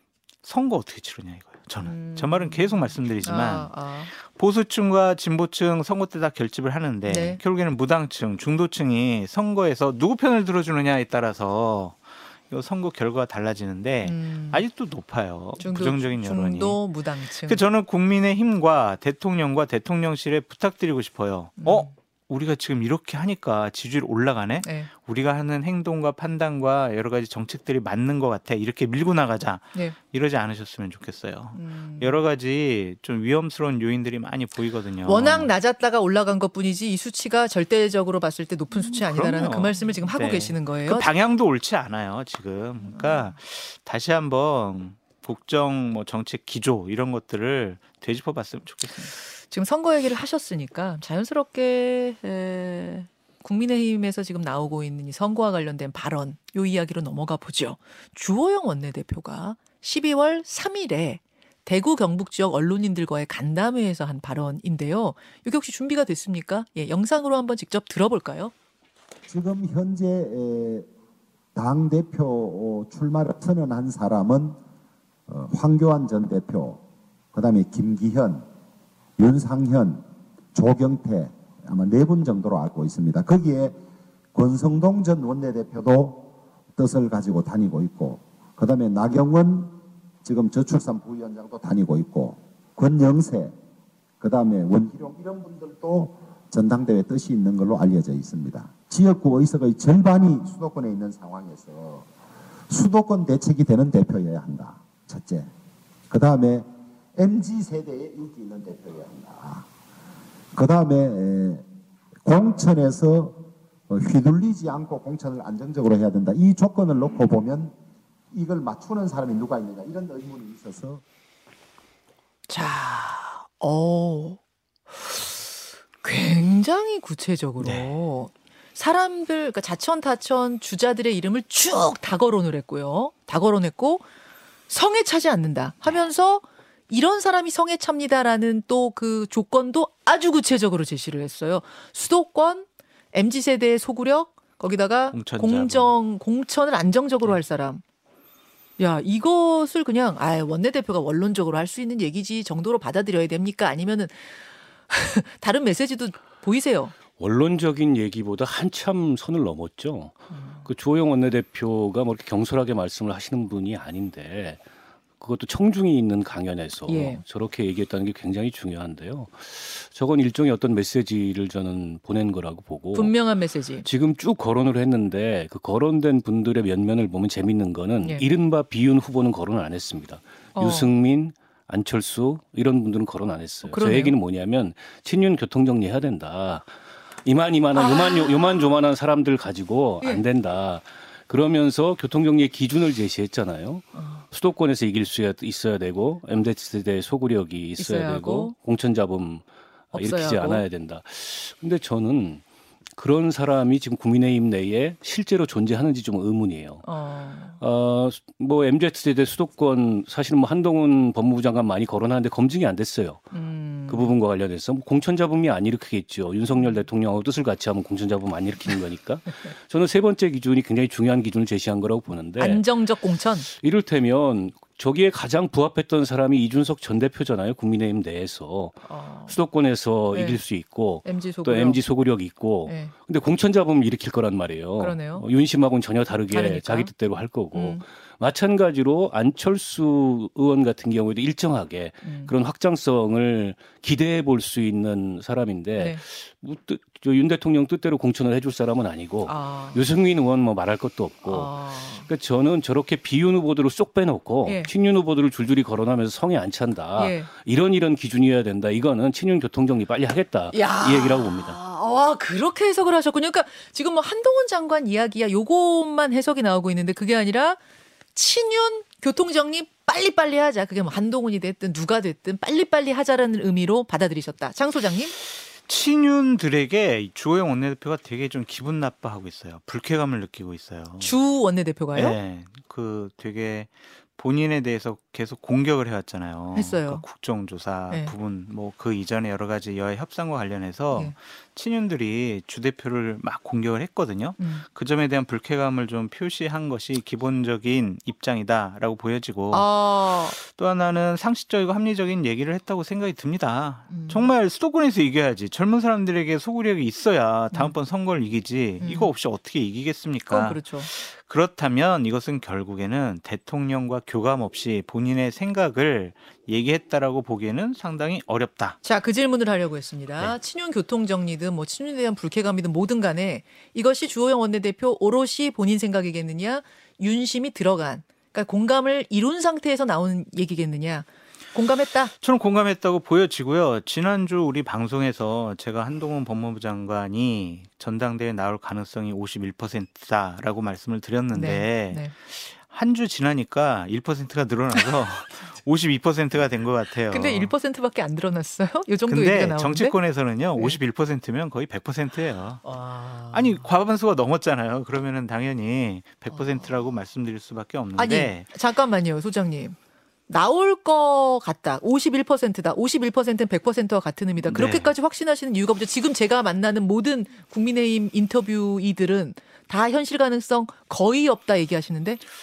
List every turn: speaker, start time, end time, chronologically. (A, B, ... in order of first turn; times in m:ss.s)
0:00.4-0:35.5 A
0:01.8-0:04.1 B
0:07.0-0:07.4 B
0:14.0-0:14.6 B
0:15.6-0:17.6 B
0:21.6-0:21.9 B
0:24.6-0:24.9 B
0:31.5-0:32.2 B
0:35.0-0:41.1 B
0:38.7-0:49.1 A
0:42.8-0:43.3 B
0:49.3-1:08.5 B
1:09.3-1:10.9 C
1:11.5-1:14.6 C
1:15.3-1:16.8 C
1:17.3-1:18.4 C
1:19.2-1:23.8 C
1:24.3-1:33.5 C
1:34.2-1:42.0 C
1:42.7-1:45.5 C
1:46.1-1:49.6 C
1:50.5-1:51.6 C
1:52.2-1:57.7 C
1:58.3-2:01.0 C
2:02.5-2:04.4 B
2:04.9-2:14.0 B
2:07.6-2:07.9 A
2:14.7-2:27.8 B
2:25.1-2:25.9 A
2:28.8-2:34.4 B
2:34.9-2:36.9 B
2:37.2-2:44.6 D
2:40.3-2:40.6 B
2:45.2-2:53.1 D
2:46.8-2:47.2 B
2:52.9-2:53.9 B
2:53.8-3:22.4 D
2:58.0-2:58.2 B
3:00.5-3:00.9 B
3:03.6-3:04.2 B
3:07.7-3:08.7 B
3:13.9-3:14.2 B
3:17.8-3:18.5 B
3:19.9-3:20.6 B
3:23.0-3:26.9 D
3:26.8-3:27.6 B
3:27.5-3:33.3 D
3:33.3-3:34.2 B
3:33.9-3:42.8 D
3:36.5-3:36.8 B
3:42.4-3:43.5 B
3:43.4-4:21.6 D
3:48.8-3:49.4 B
3:50.1-3:50.4 B
3:51.0-3:51.8 B
3:52.6-3:52.9 B
3:54.8-3:55.3 B
3:56.3-3:56.9 B
3:57.5-3:57.8 B
4:02.0-4:02.3 B
4:09.2-4:09.8 B
4:11.2-4:12.1 B
4:14.4-4:14.7 B
4:17.0-4:17.3 B
4:20.5-4:27.6 B
4:28.1-4:35.1 B
4:35.6-4:41.2 A
4:41.0-4:42.2 B
4:41.9-5:18.8 A
4:46.5-4:47.0 B
4:54.4-4:54.6 B
4:59.5-5:00.4 B
5:03.9-5:04.3 B
5:08.8-5:09.1 B
5:10.3-5:10.9 B
5:18.8-5:32.1 B
5:32.2-5:47.5 A
5:41.3-5:42.1 B
5:47.1-5:49.9 B
5:49.1-5:52.7 A
5:52.6-5:53.7 B
5:53.3-5:58.5 A
5:56.3-5:56.7 B
5:58.0-5:59.8 B
6:00.3-6:12.2 B
6:04.4-6:04.9 A